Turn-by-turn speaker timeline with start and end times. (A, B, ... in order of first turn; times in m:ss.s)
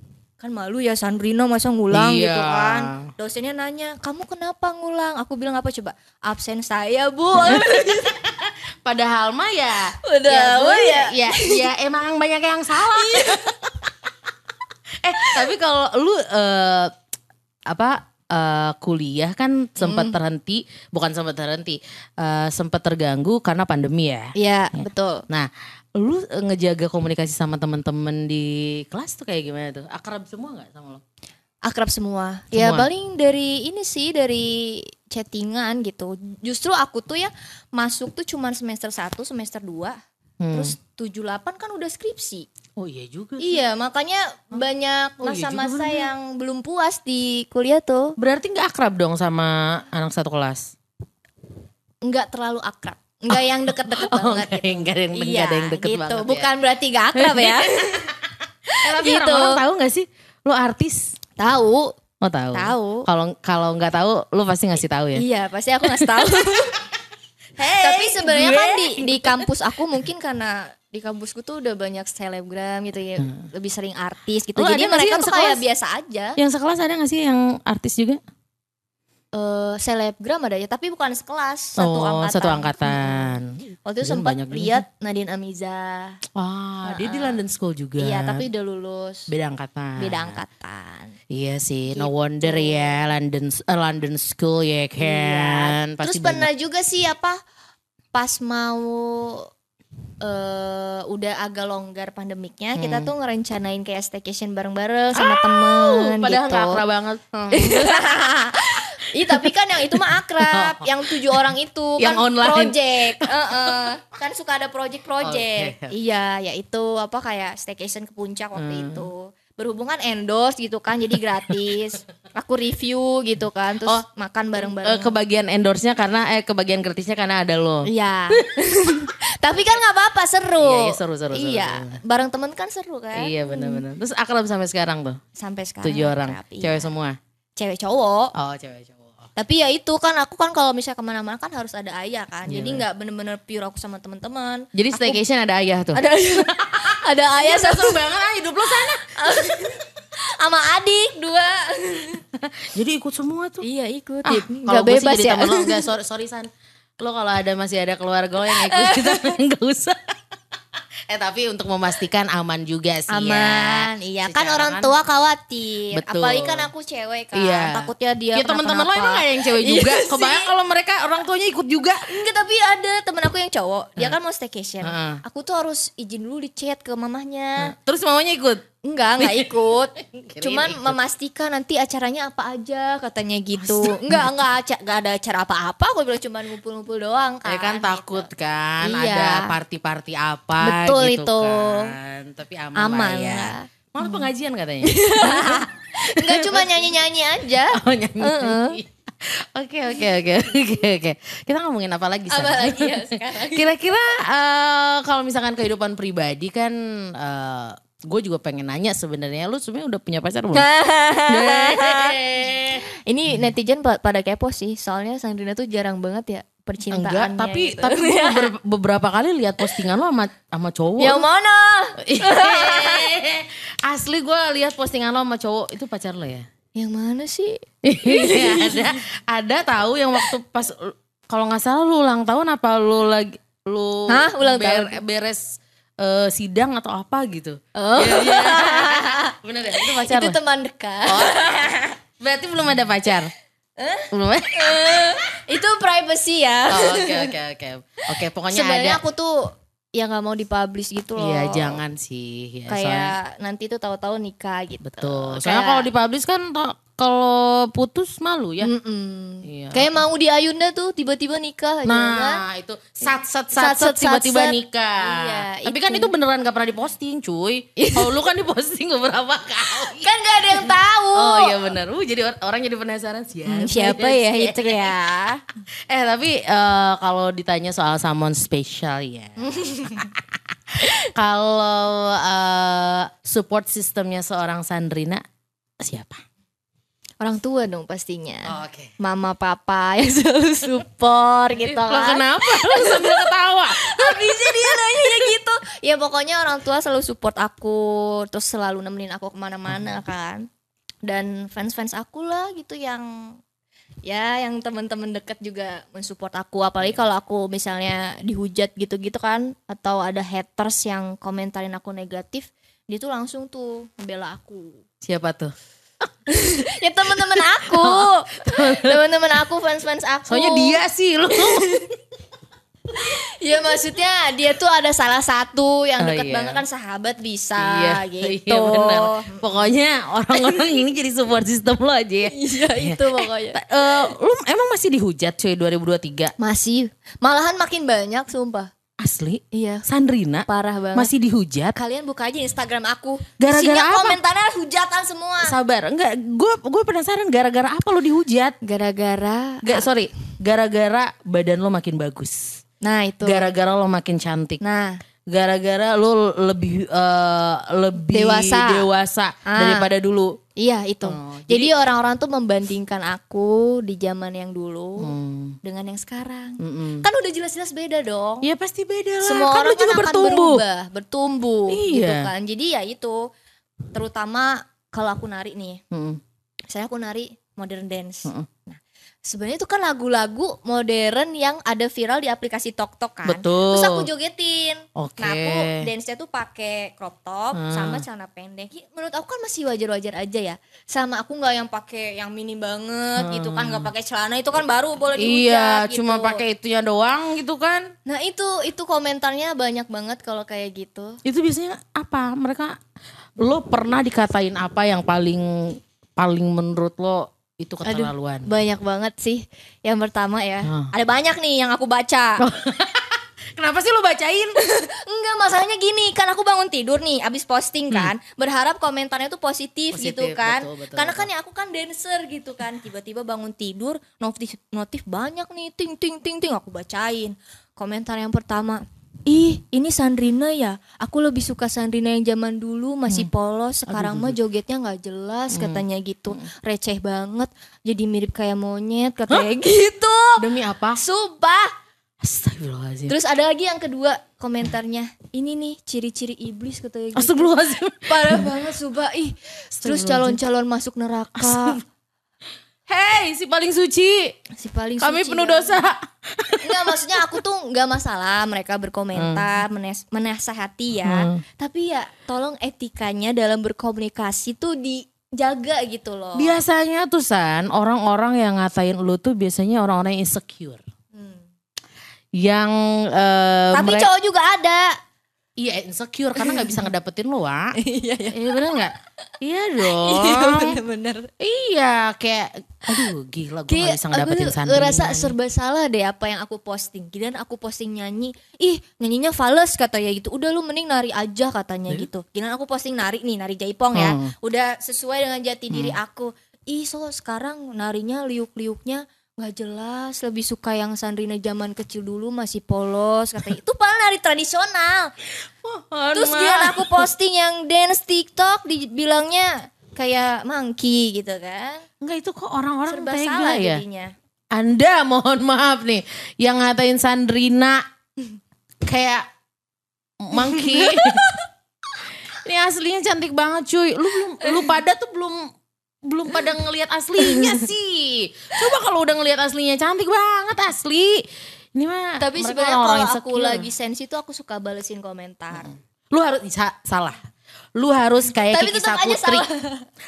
0:00.4-0:08.2 A
0:01.9-0:03.1 B
0:07.4-0:13.6 B
0:10.0-0:11.7 A
0:12.8-0:13.7 A
0:15.0-0:16.9 B
0:15.2-0:15.5 A
0:17.7-0:31.0 B
0:19.8-0:20.2 A
0:24.4-0:25.2 A
0:31.6-0:40.0 A
0:32.5-0:32.9 B
0:40.4-0:40.8 B
0:40.5-0:42.5 A
0:42.8-0:43.6 B
0:43.4-0:48.2 A
0:45.2-0:46.1 B
0:48.2-0:50.7 B
0:52.0-0:58.1 A
0:53.3-0:56.5 B
0:57.2-0:58.1 B
0:58.7-0:59.6 A
0:58.8-1:01.1 B
1:01.4-1:01.9 A
1:02.2-1:05.2 B
1:02.5-1:03.1 A
1:05.2-1:06.8 A
1:05.8-1:06.8 B
1:07.6-1:09.5 B
1:07.7-1:16.4 A
1:14.6-1:15.6 B
1:16.4-1:18.2 B
1:19.3-1:26.2 A
1:21.8-1:24.8 B
1:26.4-1:28.4 B
1:26.8-1:27.4 A
1:28.0-1:29.3 A
1:29.3-1:30.4 B
1:30.0-1:31.2 A
1:31.3-1:36.5 B
1:31.9-1:32.9 A
1:35.0-1:37.4 A
1:38.1-1:39.5 A
1:40.2-1:46.8 A
1:42.8-1:43.1 B
1:45.2-1:48.1 B
1:47.5-2:05.2 A
1:48.8-1:51.5 B
1:52.0-1:53.9 B
1:55.2-1:55.9 B
1:58.6-1:59.1 B
2:04.6-2:08.5 B
2:07.8-2:13.8 A
2:10.6-2:12.0 B
2:13.2-2:15.2 B
2:15.4-2:16.8 A
2:15.8-2:17.2 B
2:17.6-2:18.3 A
2:18.4-2:19.2 B
2:19.4-2:25.2 A
2:22.5-2:22.8 B
2:24.8-2:29.1 B
2:25.9-2:28.0 A
2:29.2-2:32.2 A
2:32.4-2:33.6 B
2:33.6-2:35.8 A
2:34.2-2:36.5 B
2:37.0-2:40.0 B
2:38.4-2:39.3 A
2:41.1-2:44.9 B
2:43.1-2:50.5 A
2:45.9-2:46.7 B
2:47.3-2:52.0 B
2:52.1-2:57.7 A
2:54.8-2:55.2 B
2:57.6-2:58.6 B
2:58.8-3:08.3 A
2:59.2-3:01.0 B
3:03.6-3:04.3 B
3:07.5-3:16.9 B
3:08.8-3:09.6 A
3:10.6-3:12.0 A
3:12.8-3:14.3 A
3:14.8-3:18.8 A
3:17.7-3:30.7 B
3:22.3-3:23.7 A
3:30.5-3:38.5 A
3:31.3-3:32.8 B
3:36.9-3:41.2 B
3:41.0-3:43.2 A
3:42.0-3:46.5 B
3:46.8-3:49.0 A
3:47.8-3:55.5 B
3:54.1-3:55.0 A
3:56.0-4:00.4 B
3:57.8-4:02.0 A
4:01.1-4:01.6 B
4:02.2-4:03.3 B
4:03.8-4:07.3 A
4:04.1-4:05.2 B
4:06.7-4:09.0 B
4:08.5-4:11.8 A
4:11.2-4:13.2 B
4:12.7-4:15.9 A
4:14.8-4:18.7 B
4:18.6-4:22.4 A
4:19.4-4:19.9 B
4:21.9-4:34.9 B
4:23.5-4:26.1 A
4:27.8-4:28.1 A
4:29.8-4:31.7 A
4:33.5-4:35.4 A
4:35.9-4:45.2 B
4:39.4-4:40.1 A
4:45.8-4:46.2 B
4:47.2-5:00.5 A
4:48.5-4:48.9 B
4:51.6-4:55.4 B
5:01.0-5:03.4 A
5:04.0-5:14.8 A
5:15.0-5:15.5 B
5:16.3-5:20.8 A
5:17.1-5:19.0 B
5:20.3-5:21.8 B
5:21.3-5:21.9 A
5:22.9-5:29.7 A
5:26.0-5:26.6 B
5:27.6-5:36.3 B
5:30.3-5:30.8 A
5:32.3-5:33.6 A
5:36.4-5:38.7 A
5:39.0-5:41.8 B
5:39.5-5:39.9 A
5:40.5-5:41.1 A
5:41.8-5:45.6 A
5:43.4-5:44.2 B
5:45.4-5:48.6 B
5:48.6-5:49.9 A
5:49.6-5:52.6 B
5:52.8-5:53.5 A
5:53.2-5:54.6 B
5:54.6-5:55.0 A
5:55.3-6:00.4 B
5:58.0-5:58.9 A
5:59.5-5:59.9 A
6:00.6-6:08.5 A
6:01.0-6:01.7 B
6:05.0-6:05.6 B
6:06.6-6:07.1 B
6:08.4-6:10.6 B
6:09.2-6:13.3 A
6:11.7-6:12.3 B
6:13.9-6:15.8 A
6:15.9-6:16.2 B
6:16.7-6:36.4 A
6:23.2-6:24.1 B
6:25.0-6:25.9 B
6:27.6-6:28.0 B
6:33.2-6:33.9 B
6:35.2-6:37.9 B
6:38.1-6:41.2 A
6:41.2-6:42.8 B
6:43.4-6:48.5 B
6:47.8-6:52.5 A
6:50.6-6:50.9 B
6:52.4-6:54.6 B
6:54.6-7:20.4 A
6:59.9-7:01.3 B
7:13.9-7:14.4 B
7:15.5-7:16.5 B
7:20.4-7:21.0 B
7:21.0-7:21.7 A
7:22.2-7:23.2 B
7:23.1-7:31.8 A
7:27.2-7:28.7 B
7:29.8-7:30.4 B
7:31.4-7:31.8 B
7:32.9-7:34.4 B
7:34.5-7:35.8 A
7:35.0-7:37.4 B
7:36.6-7:46.6 A
7:39.2-7:39.6 B
7:41.0-7:41.4 B
7:46.4-7:50.8 B
7:51.1-7:51.4 A
7:52.4-7:54.1 B
7:53.7-7:55.0 A
7:55.6-7:57.8 B
7:56.4-7:56.9 A
7:57.8-7:58.7 A
7:58.3-8:00.8 B
7:59.8-8:01.3 A
8:01.4-8:05.4 B
8:03.7-8:25.1 A
8:14.0-8:14.3 B
8:15.7-8:16.0 B
8:25.4-8:27.1 B
8:26.1-8:31.8 A
8:32.0-8:33.8 B
8:32.9-8:34.1 A
8:34.5-8:37.8 B
8:38.8-8:39.3 B
8:40.2-8:41.3 B
8:40.3-8:41.4 A
8:42.4-8:45.5 B
8:44.4-8:44.7 A
8:46.0-8:53.7 B
8:47.2-8:47.7 A
8:52.2-8:55.7 A
8:55.5-8:57.2 B
8:57.8-8:59.5 B
8:58.3-8:59.9 A